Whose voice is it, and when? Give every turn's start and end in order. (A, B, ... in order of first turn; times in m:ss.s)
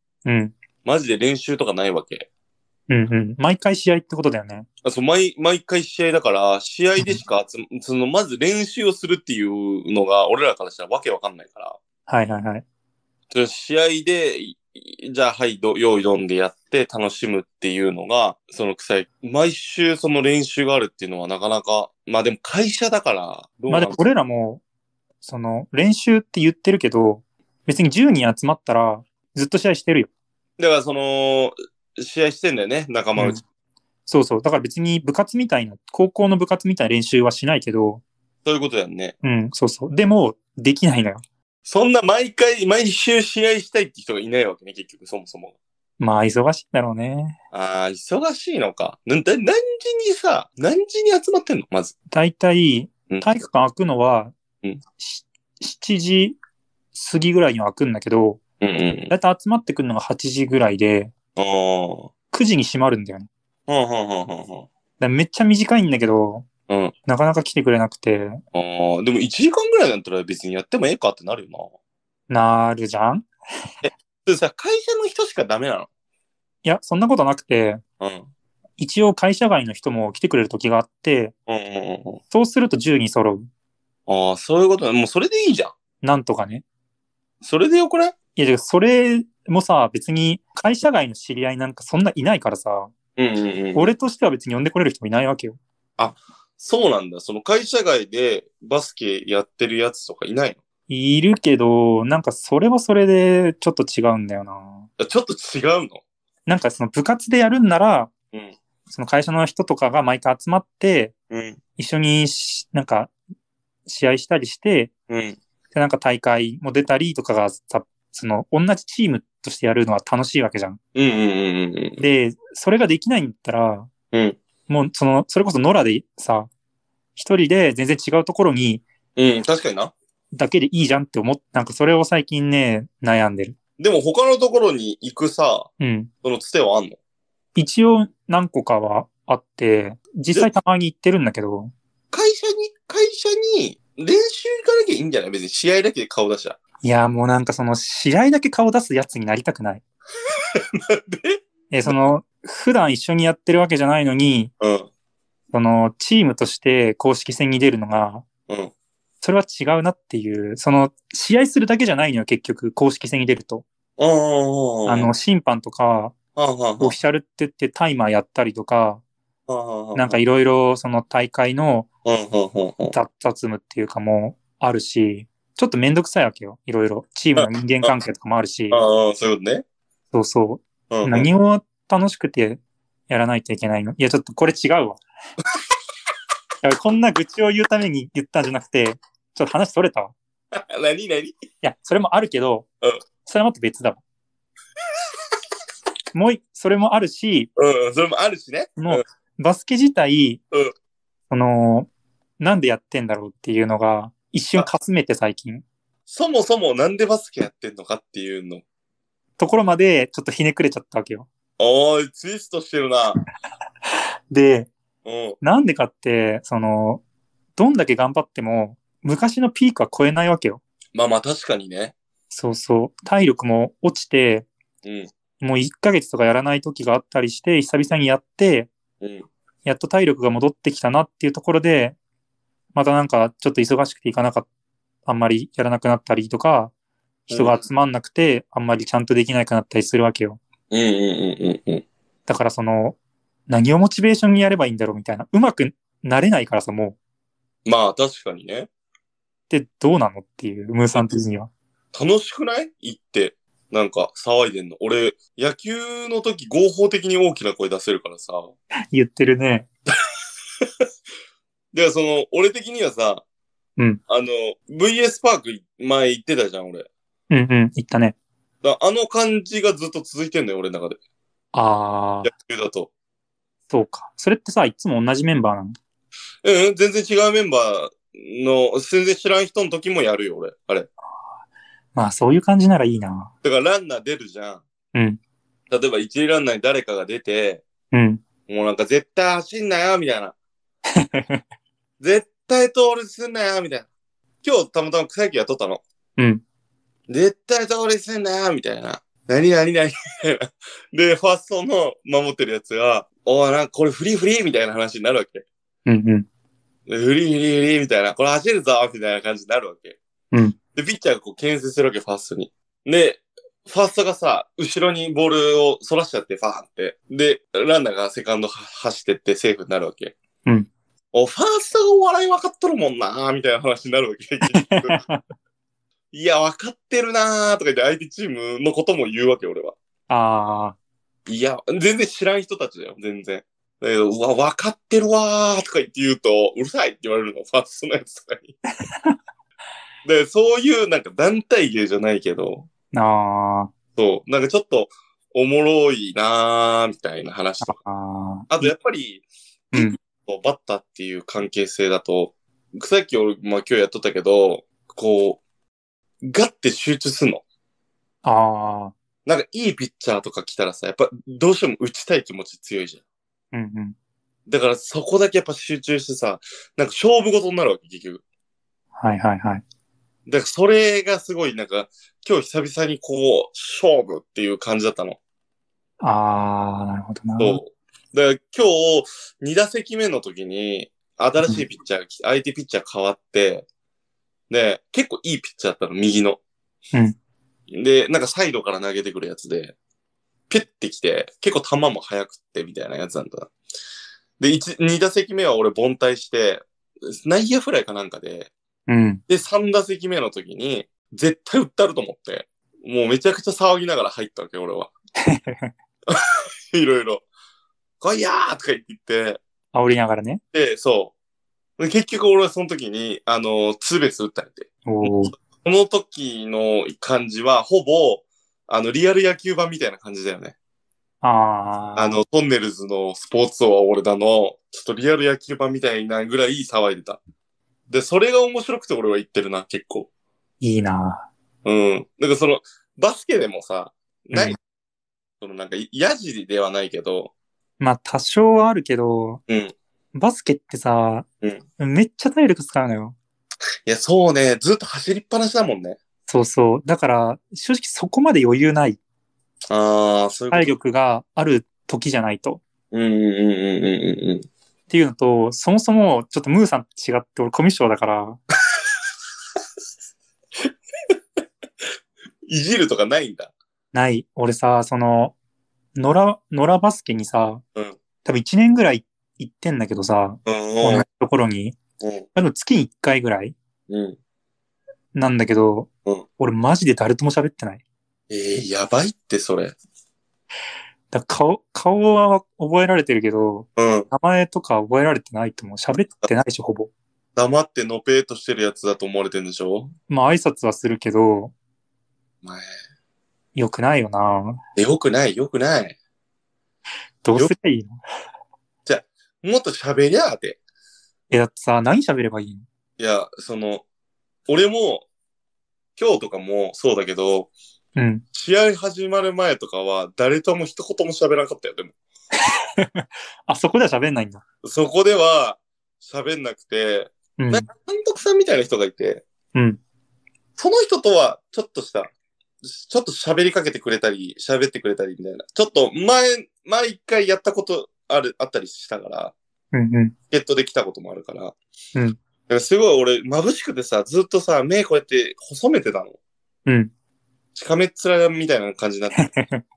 0:00.2-0:00.5 A
0:00.8-0:02.3 B
0:02.9-0:04.7 A
0:04.8-0:11.8 B
0:12.1-0:12.6 A
0:13.3-0:24.0 B
0:23.7-0:24.6 A
0:25.2-0:30.1 A
0:30.6-0:33.4 B
0:33.2-0:33.4 A
0:34.1-0:38.0 A
0:38.4-0:39.2 B
0:39.2-0:41.2 A
0:41.6-0:45.5 B
0:46.0-0:47.4 A
0:47.5-0:51.9 B
0:52.1-0:54.3 A
0:55.0-0:56.4 A
0:56.9-0:58.4 A
0:58.6-0:59.1 B
0:59.1-1:01.1 A
1:01.4-1:02.1 B
1:02.3-1:03.3 A
1:03.7-1:04.7 B
1:05.0-1:06.5 A
1:06.7-1:06.9 B
1:07.0-1:08.4 A
1:08.5-1:11.7 B
1:12.3-1:13.3 A
1:13.8-1:15.9 B
1:16.6-1:17.8 A
1:18.0-1:18.3 B
1:18.8-1:21.3 A
1:21.5-1:22.2 B
1:22.3-1:23.5 A
1:24.1-1:25.7 B
1:26.0-1:26.6 A
1:27.4-1:28.1 B
1:28.4-1:32.9 A
1:33.2-1:33.9 B
1:33.7-1:35.6 A
1:36.0-1:40.6 B
1:40.9-1:44.9 A
1:45.0-1:46.0 B
1:46.4-1:48.1 A
1:48.9-1:51.1 A
1:51.3-1:51.6 B
1:51.8-1:53.1 A
1:53.8-1:54.9 A
1:55.1-1:55.4 B
1:55.7-2:00.8 A
2:00.9-2:02.0 B
2:02.0-2:03.9 A
2:04.1-2:04.4 B
2:04.7-2:06.5 A
2:07.2-2:08.8 A
2:09.2-2:09.9 B
2:10.3-2:13.6 A
2:13.8-2:15.7 B
2:15.8-2:16.1 A
2:16.2-2:17.0 B
2:17.6-2:21.7 A
2:22.1-2:26.6 B
2:26.8-2:29.8 A
2:30.5-2:32.0 B
2:31.7-2:34.5 A
2:34.6-2:34.9 B
2:35.5-2:38.2 A
2:39.2-2:43.6 A
2:44.0-2:45.1 B
2:44.9-2:46.1 A
2:46.4-2:47.0 B
2:46.8-2:49.0 A
2:49.5-2:50.2 B
2:49.9-2:51.9 A
2:52.0-2:53.0 B
2:52.9-2:58.8 A
2:57.4-2:57.9 B
2:58.7-2:59.6 B
3:00.1-3:05.0 A
3:00.9-3:01.3 B
3:06.6-3:10.1 A
3:10.5-3:11.3 B
3:11.6-3:12.7 A
3:13.2-3:14.0 A
3:16.1-3:17.5 A
3:17.6-3:19.0 B
3:18.8-3:20.4 A
3:21.3-3:25.6 A
3:26.1-3:28.6 B
3:29.4-3:31.3 A
3:31.6-3:33.2 B
3:34.3-3:34.7 A
3:35.0-3:35.4 B
3:35.4-3:37.0 A
3:37.6-3:40.6 A
3:40.9-3:41.9 B
3:42.3-3:44.5 A
3:44.8-3:45.1 B
3:45.4-3:48.7 A
3:49.0-3:49.3 B
3:49.6-3:52.0 A
3:52.7-3:54.5 A
3:55.0-3:56.7 A
3:57.3-4:00.4 A
3:57.3-3:57.6 B
4:00.7-4:01.8 B
4:02.3-4:03.0 A
4:03.5-4:07.0 A
4:07.6-4:08.7 B
4:09.5-4:11.5 A
4:11.9-4:18.5 B
4:18.9-4:19.7 A
4:21.7-4:23.2 B
4:24.1-4:26.9 B
4:27.3-4:28.2 A
4:28.6-4:31.0 B
4:31.5-4:32.3 A
4:32.2-4:32.9 B
4:33.7-4:35.8 A
4:36.4-4:40.9 B
4:41.9-4:43.3 A
4:43.4-4:44.6 B
4:44.9-4:45.2 A
4:45.7-4:47.6 B
4:47.9-4:48.2 A
4:48.5-4:50.3 B
4:51.0-4:51.4 A
4:52.0-4:53.9 B
4:54.4-4:55.8 B
4:56.2-4:56.4 A
4:57.1-5:05.4 B
5:05.8-5:06.3 A
5:06.9-5:10.0 B
5:10.3-5:10.6 A
5:10.7-5:20.2 B
5:21.1-5:25.0 B
5:24.5-5:25.2 A
5:26.1-5:29.7 B
5:30.1-5:30.8 A
5:31.3-5:38.5 B
5:38.8-5:39.2 A
5:40.0-5:42.7 B
5:42.9-5:43.7 A
5:44.0-5:47.8 B
5:47.6-5:48.7 A
5:48.5-5:55.4 B
5:49.7-5:50.0 A
5:56.2-5:57.4 B
5:58.2-5:58.9 A
5:59.2-6:03.0 B
6:03.5-6:03.9 A
6:04.5-6:08.2 B
6:09.0-6:09.6 A
6:10.3-6:15.2 B
6:16.0-6:17.6 A
6:17.4-6:23.6 B
6:24.5-6:26.4 B
6:27.7-6:29.7 B
6:30.5-6:33.5 B
6:34.4-6:38.5 B
6:38.9-6:39.2 A
6:39.3-6:44.9 B
6:45.2-6:45.7 A
6:46.7-6:47.2 B
6:48.0-6:49.4 B
6:49.7-6:50.4 A
6:50.5-6:51.1 B
6:51.8-7:00.5 B
6:54.8-6:55.3 A
7:01.2-7:02.2 A
7:02.0-7:07.2 B
7:07.9-7:10.1 B
7:10.6-7:11.3 A
7:11.6-7:14.6 B
7:15.4-7:17.3 B
7:17.8-7:19.4 A
7:19.5-7:19.7 B
7:20.1-7:21.2 A
7:21.8-7:23.2 A
7:23.8-7:26.0 B
7:26.3-7:29.0 A
7:29.7-7:30.7 B
7:30.5-7:32.6 A
7:32.9-7:34.5 B
7:34.9-7:38.4 A
7:42.4-7:43.5 B
7:43.9-7:45.3 A
7:46.0-7:47.6 A
7:48.2-7:51.8 A
7:50.4-7:51.0 B
7:52.0-7:52.3 B
7:52.3-7:53.5 A
7:53.9-7:54.2 B
7:55.1-7:57.8 A
7:58.3-7:59.8 B
8:01.1-8:06.9 A
8:03.8-8:04.1 B
8:07.4-8:09.9 B
8:10.1-8:11.5 A
8:13.5-8:14.6 A
8:14.8-8:16.0 B
8:17.2-8:18.0 A
8:18.8-8:20.6 B
8:21.3-8:22.6 A
8:23.0-8:23.8 B
8:24.5-8:25.0 B
8:26.0-8:27.5 B
8:28.0-8:28.2 A
8:28.3-8:31.9 B
8:32.8-8:34.4 A
8:34.6-8:39.2 B
8:37.4-8:37.7 A
8:39.5-8:39.8 A
8:40.6-8:42.1 B
8:42.6-8:49.3 B
8:49.7-8:50.1 A
8:50.3-8:51.6 B
8:52.5-8:56.2 B
8:56.6-8:56.9 A
8:57.5-8:59.2 B
8:59.2-8:59.6 A